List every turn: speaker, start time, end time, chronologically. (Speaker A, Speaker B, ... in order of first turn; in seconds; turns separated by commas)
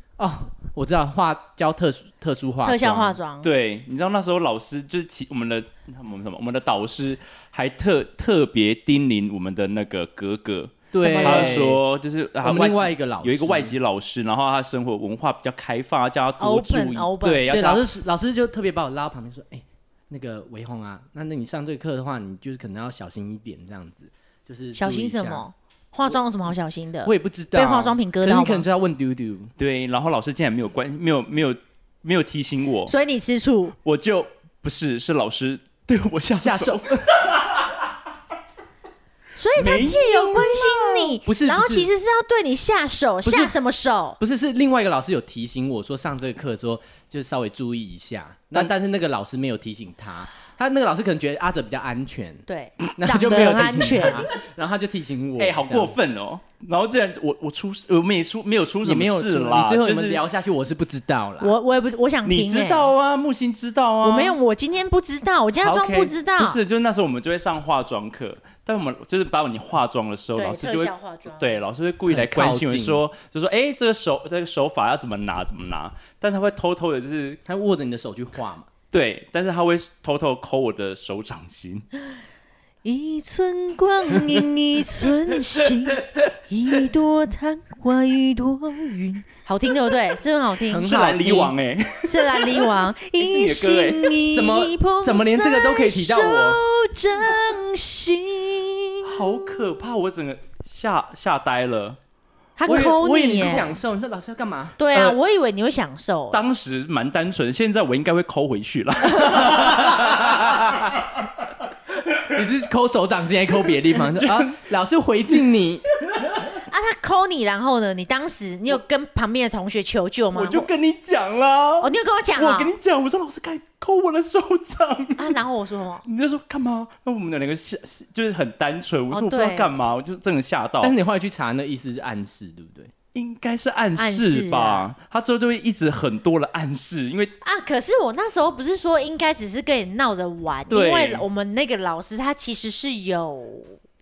Speaker A: 0.2-3.2, Speaker B: 2.6-3.5, Speaker C: 3.4-17.8, Speaker A: 10.9-11.8, Speaker B: 11.0-11.6, Speaker A: 12.4-13.8, Speaker B: 16.4-17.6, Speaker A: 17.5-25.4, Speaker B: 24.8-28.6, Speaker A: 27.0-29.5, Speaker C: 29.6-32.9, Speaker B: 32.9-33.7, Speaker C: 33.8-37.8, Speaker A: 36.3-37.1, Speaker B: 39.4-44.2, Speaker C: 39.5-41.1, Speaker A: 41.2-41.9, Speaker A: 43.2-43.5, Speaker A: 44.2-55.9, Speaker B: 52.5-54.3, Speaker C: 55.4-60.2, Speaker A: 58.8-61.5, Speaker B: 61.4-62.9, Speaker C: 62.2-64.4, Speaker B: 64.0-66.6, Speaker C: 65.6-77.4, Speaker B: 70.3-71.6, Speaker A: 72.1-73.0, Speaker A: 77.4-78.7, Speaker C: 78.9-81.8, Speaker B: 82.8-91.1, Speaker A: 90.7-91.5, Speaker C: 90.7-94.2, Speaker B: 92.0-99.2, Speaker A: 94.3-96.6, Speaker C: 99.0-102.0, Speaker B: 102.6-103.7, Speaker A: 102.7-104.8, Speaker B: 104.8-106.4, Speaker C: 106.3-111.0, Speaker A: 109.4-110.9, Speaker A: 112.3-115.8, Speaker C: 114.0-114.6, Speaker C: 116.1-116.5, Speaker B: 116.7-120.7, Speaker C: 120.3-125.4, Speaker B: 121.8-122.7, Speaker B: 125.2-126.0, Speaker C: 126.0-130.9, Speaker B: 129.1-129.7, Speaker A: 130.8-132.9, Speaker C: 133.1-137.3, Speaker B: 133.9-134.8, Speaker B: 137.4-143.8, Speaker C: 140.7-141.2